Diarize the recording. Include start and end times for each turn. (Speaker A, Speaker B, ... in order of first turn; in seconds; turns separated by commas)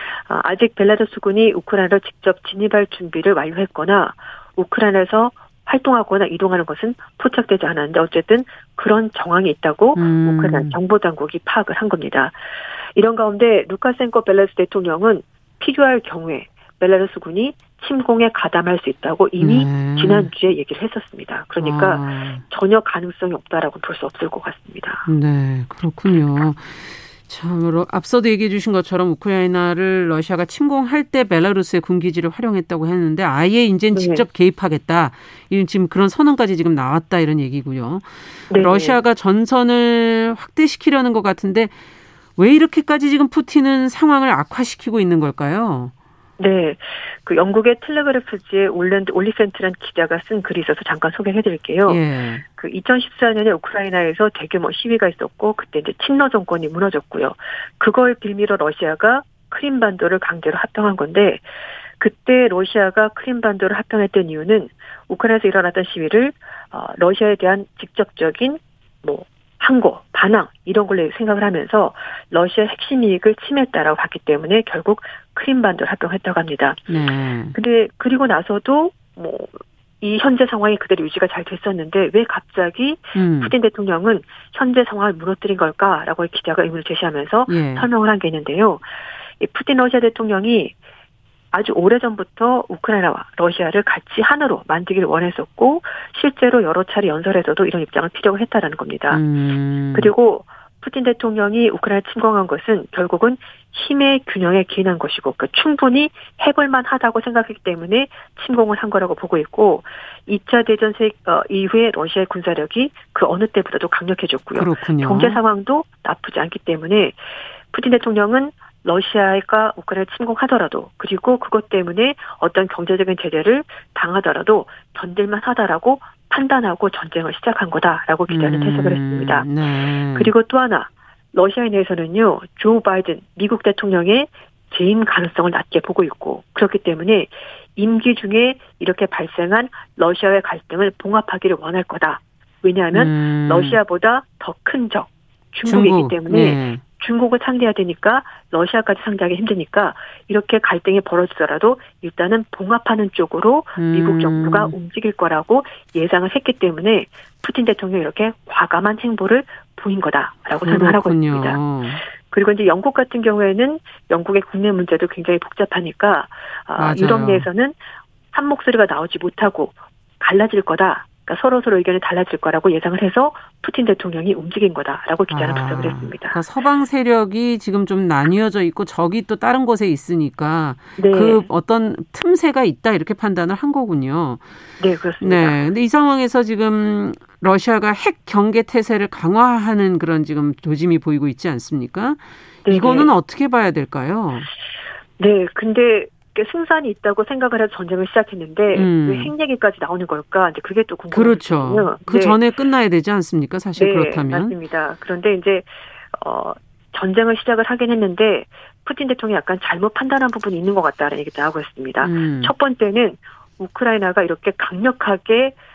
Speaker A: 0.3-12.4, Speaker B: 10.0-10.8, Speaker A: 13.0-25.0, Speaker B: 19.4-20.3, Speaker B: 21.6-22.4, Speaker B: 25.1-41.7, Speaker A: 33.9-34.2, Speaker A: 38.5-39.0, Speaker B: 42.4-45.9, Speaker A: 46.4-52.0, Speaker B: 51.9-52.4, Speaker A: 52.5-61.5, Speaker A: 62.0-76.8, Speaker B: 76.9-77.6, Speaker A: 77.5-88.8, Speaker B: 83.2-83.5, Speaker B: 87.5-87.9, Speaker A: 89.4-90.8, Speaker A: 91.5-99.2, Speaker B: 99.1-100.1, Speaker A: 99.9-117.2, Speaker B: 114.5-115.4, Speaker A: 117.7-129.5, Speaker B: 128.3-130.3, Speaker A: 130.2-161.6, Speaker B: 142.9-143.8, Speaker B: 145.7-146.8, Speaker B: 153.8-154.8, Speaker B: 160.6-162.0, Speaker A: 162.3-167.8, Speaker B: 166.8-167.5, Speaker A: 168.3-176.4, Speaker B: 175.3-184.4, Speaker A: 181.0-181.5, Speaker A: 184.8-185.7, Speaker B: 185.2-194.5, Speaker A: 192.7-193.1, Speaker A: 195.2-202.4, Speaker B: 198.7-199.3, Speaker B: 201.1-204.6, Speaker A: 203.8-215.6, Speaker B: 212.0-212.5